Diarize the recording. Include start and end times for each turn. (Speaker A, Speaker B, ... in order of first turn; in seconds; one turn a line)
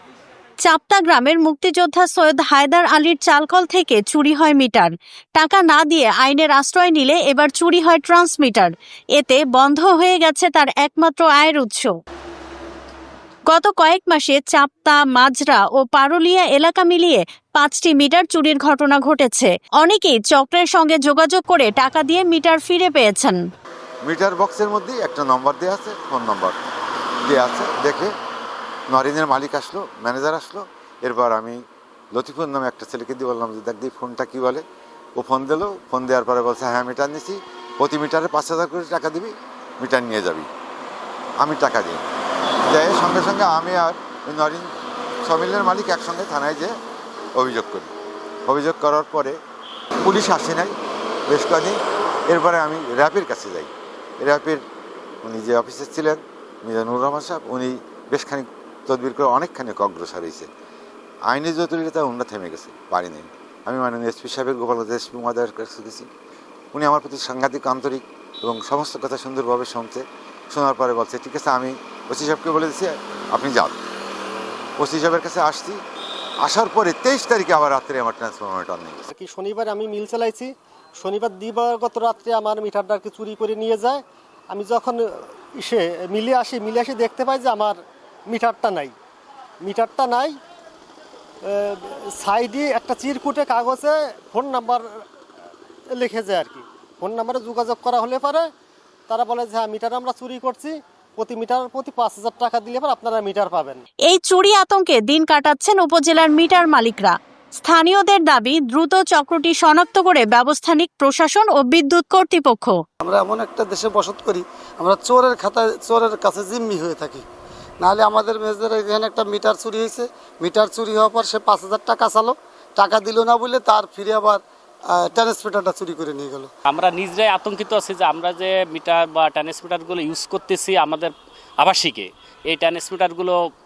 Speaker A: 0.6-11.9
Speaker A: 13.5-23.4
Speaker B: 24.0-26.6
Speaker B: 27.2-28.1
Speaker B: 28.9-31.6
Speaker B: 32.1-34.6
Speaker B: 35.2-40.5
Speaker B: 41.4-42.0
Speaker B: 42.6-44.7
Speaker B: 45.2-46.7
Speaker B: 47.4-47.9
Speaker B: 48.5-49.4
Speaker B: 50.0-50.7
Speaker B: 51.3-54.6
Speaker B: 55.2-60.5
Speaker B: 61.3-66.1
Speaker B: 66.7-73.8
Speaker B: 74.8-75.8
Speaker B: 76.4-79.0
Speaker C: 79.1-88.9
Speaker C: 89.6-90.4
Speaker C: 91.4-95.0
Speaker C: 95.9-98.5
Speaker C: 99.1-103.8
Speaker A: 104.1-112.8
Speaker D: 113.0-117.2
Speaker D: 117.8-124.4
Speaker D: 124.9-126.5
Speaker E: 126.7-133.4